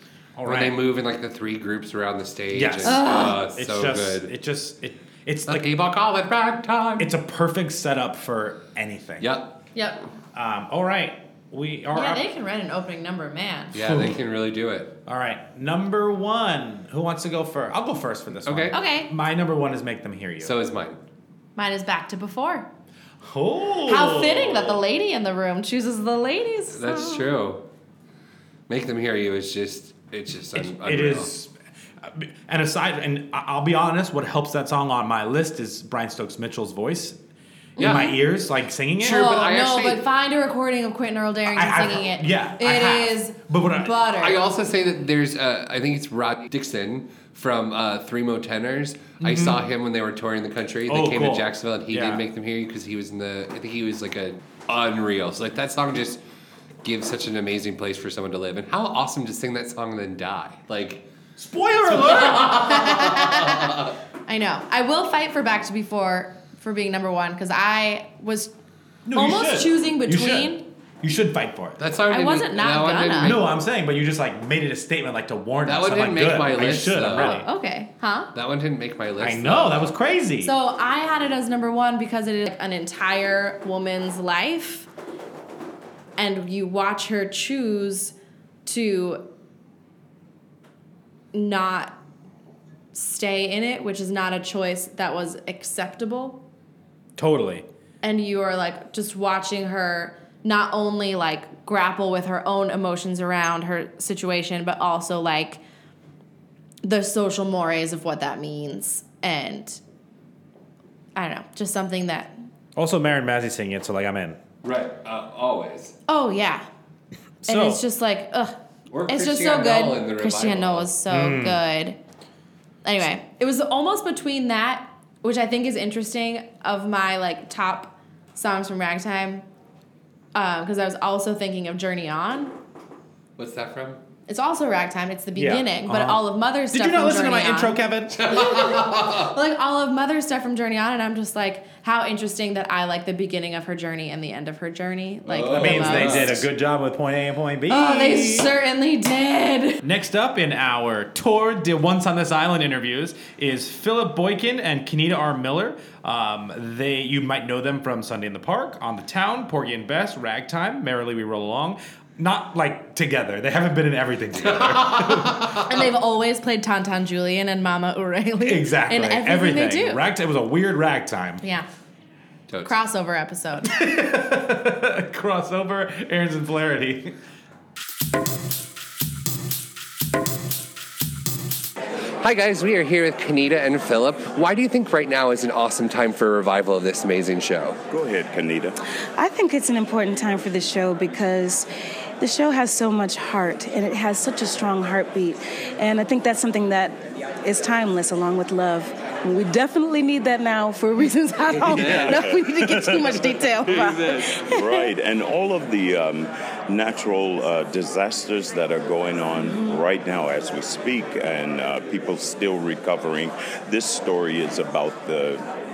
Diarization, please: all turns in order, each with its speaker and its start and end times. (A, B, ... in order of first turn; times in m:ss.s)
0:00.4-0:00.8 A
0:00.4-0:04.3 B
0:02.5-0:05.7 A
0:02.8-0:03.4 C
0:05.5-0:07.1 B
0:07.0-0:09.3 A
0:09.2-0:09.6 B
0:09.8-0:10.0 C
0:10.3-0:12.2 A
0:11.9-0:13.8 C
0:13.7-0:14.9 B
0:13.8-0:14.2 A
0:15.1-0:20.5 A
0:18.4-0:18.8 B
0:18.7-0:19.1 C
0:20.4-0:21.0 B
0:21.6-0:22.7 C
0:23.2-0:24.8 A
0:23.9-0:27.3 C
0:26.7-0:27.6 B
0:28.7-0:31.3 B
0:30.6-0:31.5 A
0:32.0-0:37.2 A
0:37.8-0:38.2 C
0:37.8-0:38.2 B
0:37.8-0:39.2 A
0:39.0-0:44.4 C
0:39.0-0:40.0 B
0:41.5-0:43.9 A
0:44.2-0:56.2 B
0:49.2-0:49.6 A
0:50.9-0:52.2 A
0:56.8-1:01.0 B
1:01.4-1:02.7 A
1:01.9-1:03.9 B
1:02.6-1:03.6 C
1:04.3-1:08.5 C
1:09.1-1:11.8 A
1:09.1-1:10.6 C
1:11.8-1:13.5 B
1:12.1-1:13.4 C
1:13.2-1:17.5 A
1:15.6-1:17.4 B
1:17.1-1:18.3 C
1:18.3-1:19.9 B
1:19.2-1:20.5 A
1:20.4-1:24.9 C
1:26.2-1:28.2 C
1:28.7-1:29.2 C
1:31.3-1:32.0 C
1:32.9-1:36.4 C
1:37.2-1:37.7 A
1:38.0-1:45.6 C
1:46.8-1:49.8 C
1:51.2-1:52.4 C
1:52.8-1:54.4 A
1:54.6-1:56.0 B
1:56.1-1:56.7 C
1:57.4-1:57.8 A
1:57.4-1:58.6 C
1:58.9-2:01.0 B
1:59.1-2:02.0 C
2:01.1-2:01.6 A
2:02.8-2:09.4 C
2:10.4-2:12.5 C
2:13.4-2:14.0 B
2:14.3-2:26.3 C
2:15.4-2:18.2 A
2:18.1-2:19.3 B
2:25.3-2:26.5 B
2:25.5-2:28.5 A
2:27.7-2:29.8 C
2:29.8-2:45.5 A
2:44.4-2:45.7 B
2:45.7-2:50.0 C
2:48.4-2:51.4 A
2:51.4-2:51.7 C
2:52.5-2:52.7 B
2:52.6-2:53.7 C
2:53.6-2:57.1 A
3:02.2-3:07.8 B
3:07.9-3:08.8 D
3:09.2-3:11.7 E
3:12.2-3:24.9 E
3:21.6-3:22.3 B
3:21.7-3:22.8 D
3:23.7-3:24.1 B
3:24.4-3:35.4 D
3:29.4-3:29.8 E